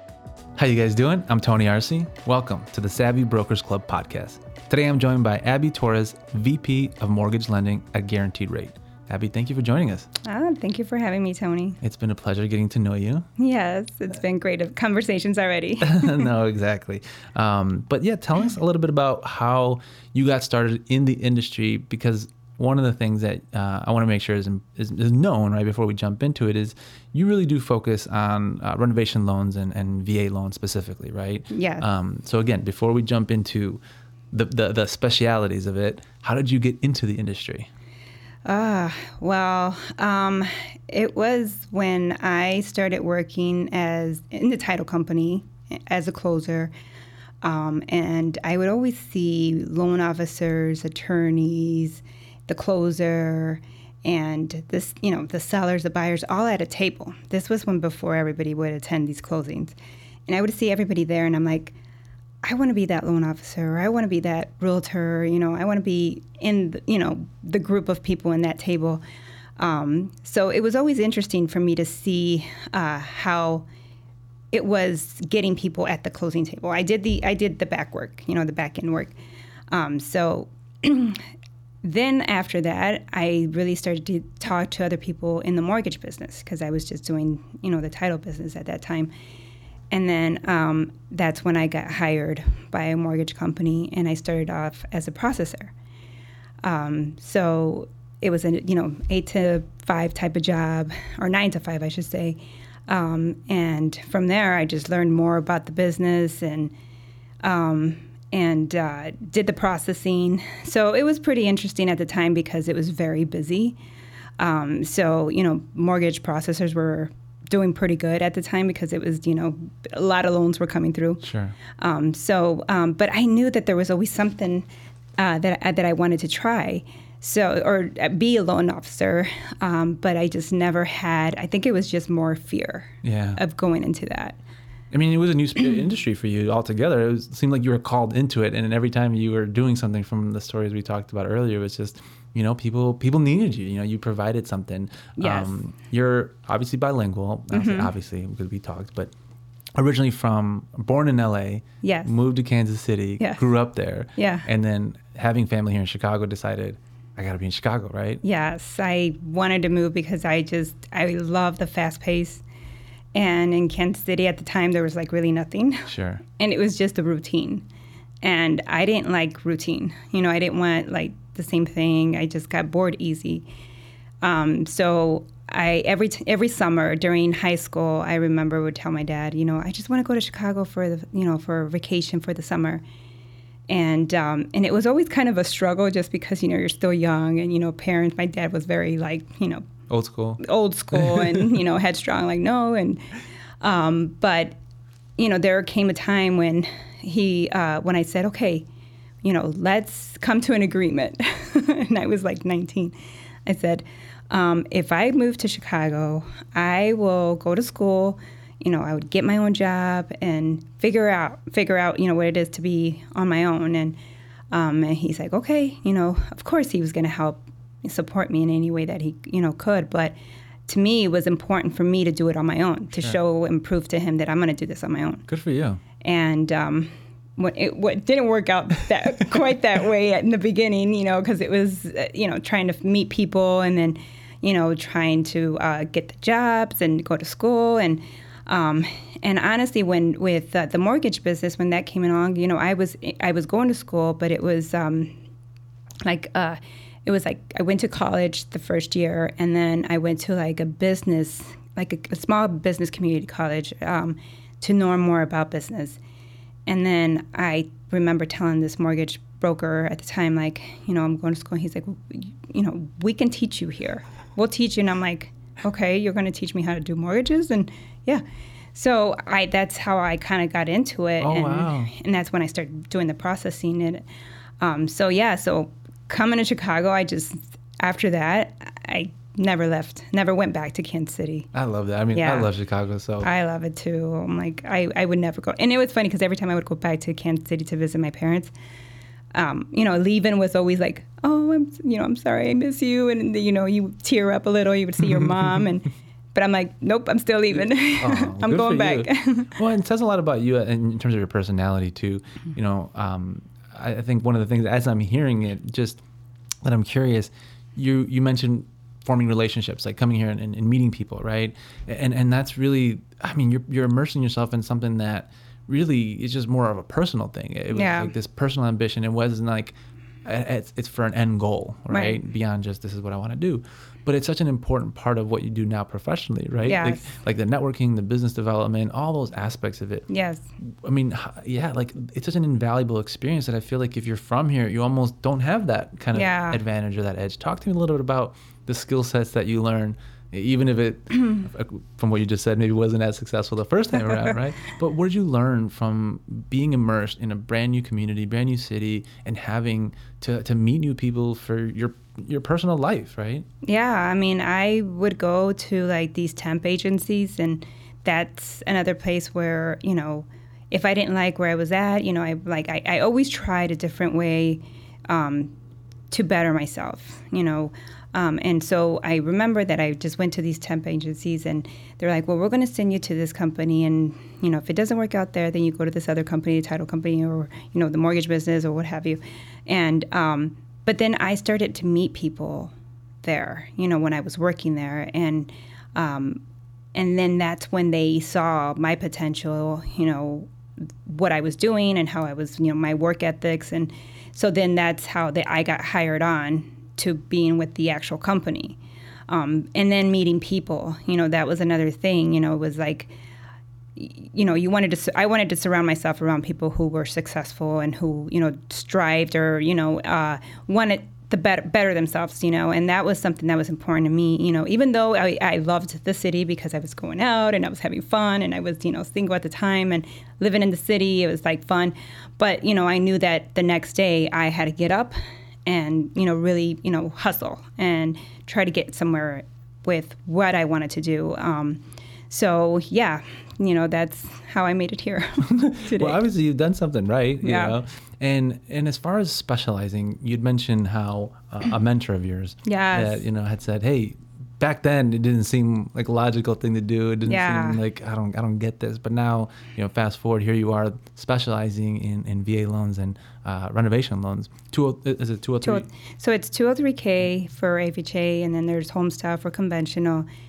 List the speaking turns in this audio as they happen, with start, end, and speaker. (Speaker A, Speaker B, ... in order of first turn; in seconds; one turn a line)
Speaker A: 0.6-10.1
Speaker B: 10.2-11.8
Speaker A: 11.8-13.3
Speaker B: 13.4-16.3
Speaker A: 15.8-33.8
Speaker B: 31.5-31.9
Speaker A: 34.3-37.7
Speaker B: 38.5-46.7
Speaker B: 47.4-59.7
Speaker B: 60.3-61.7
Speaker B: 62.4-69.0
Speaker B: 69.6-73.7
Speaker B: 74.5-79.1
Speaker B: 79.7-81.2
Speaker B: 81.8-89.1
Speaker B: 89.9-95.7
Speaker B: 96.6-106.7
Speaker B: 107.4-113.8
Speaker B: 114.4-121.2
Speaker A: 121.2-121.5
Speaker B: 121.8-124.6
Speaker B: 125.2-134.4
Speaker A: 133.0-133.4
Speaker A: 134.9-149.1
Speaker B: 145.2-145.6
Speaker B: 147.5-147.9
Speaker A: 149.8-158.2
Speaker B: 151.8-152.1
Speaker B: 154.2-154.4
Speaker B: 158.2-162.4
Speaker B: 163.1-167.7
Speaker A: 165.9-166.2
Speaker B: 168.2-173.4
Speaker B: 174.2-182.8
Speaker B: 183.7-189.7
Speaker A: 189.9-191.6
Speaker B: 190.4-193.0
Speaker B: 193.6-194.5
Speaker B: 195.2-198.7
Speaker B: 199.2-202.9
Speaker B: 203.4-214.0
Speaker B: 214.5-220.2
Speaker B: 220.7-225.3
Speaker A: 225.3-225.8
Speaker B: 226.0-245.1
Speaker B: 246.0-256.0
Speaker B: 256.6-268.2
Speaker B: 268.7-274.0
Speaker A: 271.2-271.9
Speaker B: 274.6-281.5
Speaker A: 281.5-283.3
Speaker B: 282.1-282.5
Speaker B: 283.2-288.5
Speaker B: 289.3-299.6
Speaker A: 295.1-295.5
Speaker A: 298.0-306.0
Speaker A: 306.6-330.1
Speaker B: 317.7-318.1
Speaker B: 321.9-322.2
Speaker B: 326.6-327.1
Speaker B: 330.1-330.4
Speaker A: 330.8-353.4
Speaker B: 336.1-336.6
Speaker B: 344.1-344.4
Speaker B: 353.6-365.5
Speaker B: 366.1-386.4
Speaker B: 386.9-390.5
Speaker B: 391.0-398.8
Speaker B: 399.3-403.1
Speaker B: 403.9-436.2
Speaker A: 435.4-455.9
Speaker B: 437.4-437.8
Speaker B: 442.6-443.2
Speaker B: 447.2-447.8
Speaker B: 455.6-460.3